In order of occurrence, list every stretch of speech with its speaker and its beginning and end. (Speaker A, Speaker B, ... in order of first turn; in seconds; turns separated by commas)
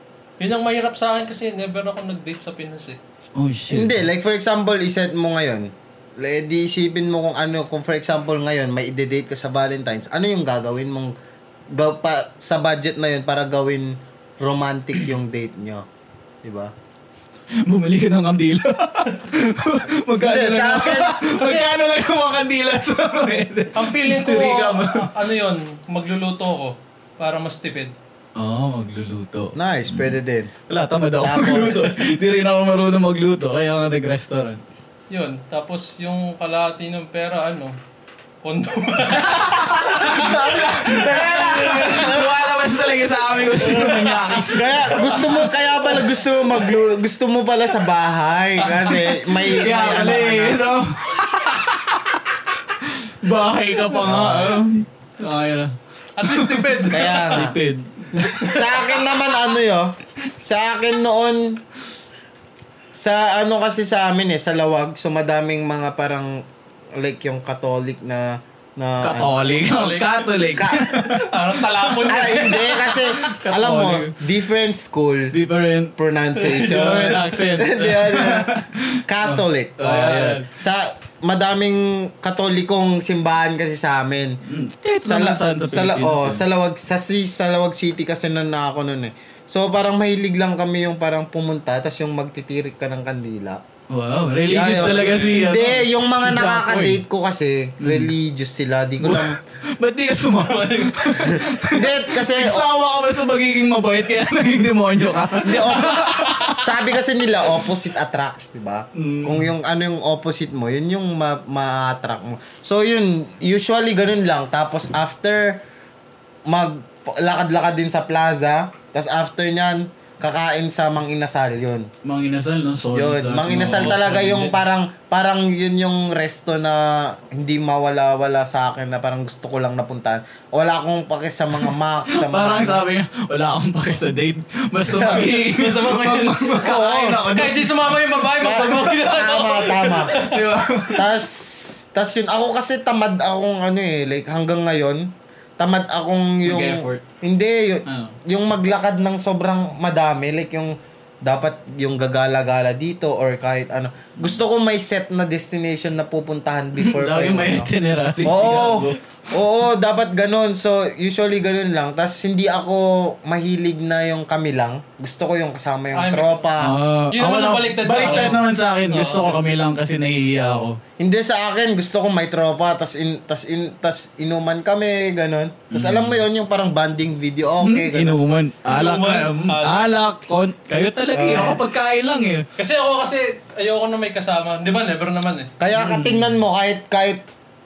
Speaker A: 0.4-3.0, Speaker B: 3.4-4.0, Speaker C: 3.7-11.2, Speaker C: 11.7-15.9, Speaker C: 16.4-16.7, Speaker B: 17.6-25.1, Speaker C: 20.2-21.2, Speaker A: 21.4-21.8, Speaker A: 23.8-27.9, Speaker B: 28.4-30.1, Speaker C: 29.6-30.5, Speaker B: 30.7-34.6, Speaker C: 31.2-32.0, Speaker A: 35.1-37.8, Speaker A: 38.4-42.1, Speaker B: 39.2-45.5, Speaker C: 40.0-42.4, Speaker C: 43.5-50.7, Speaker A: 45.0-45.5, Speaker A: 48.6-49.0, Speaker B: 49.3-58.8, Speaker C: 54.0-54.6, Speaker A: 56.2-57.4, Speaker C: 56.9-57.6, Speaker C: 58.1-61.6, Speaker C: 62.9-66.5, Speaker C: 67.0-69.5, Speaker B: 69.0-74.2, Speaker A: 69.5-73.0, Speaker C: 70.5-70.9, Speaker C: 72.1-75.3, Speaker B: 75.3-80.5, Speaker C: 76.0-78.5, Speaker A: 76.5-77.1, Speaker C: 79.1-84.4, Speaker B: 84.5-86.4, Speaker C: 85.0-93.6, Speaker B: 93.9-97.0, Speaker C: 94.5-99.4, Speaker A: 94.7-95.5, Speaker B: 97.8-98.1, Speaker B: 99.0-106.6, Speaker A: 100.3-101.4, Speaker C: 101.3-102.7, Speaker C: 105.3-115.6, Speaker B: 109.0-109.5, Speaker C: 116.5-121.9, Speaker B: 122.0-124.6, Speaker C: 122.9-132.8, Speaker B: 131.6-137.8, Speaker C: 134.9-135.3, Speaker A: 135.0-140.4, Speaker C: 136.6-137.2, Speaker C: 138.4-140.2, Speaker B: 140.1-141.1, Speaker C: 140.9-166.8, Speaker B: 146.4-147.0, Speaker B: 147.9-148.2, Speaker B: 156.8-159.0, Speaker A: 165.9-166.5, Speaker B: 166.6-170.8, Speaker A: 167.1-169.4, Speaker C: 168.0-168.4, Speaker C: 171.0-178.2, Speaker B: 175.7-176.2, Speaker B: 177.6-182.5, Speaker A: 178.7-179.9, Speaker C: 181.1-181.6, Speaker A: 182.6-185.5, Speaker C: 185.6-187.2, Speaker B: 185.7-186.3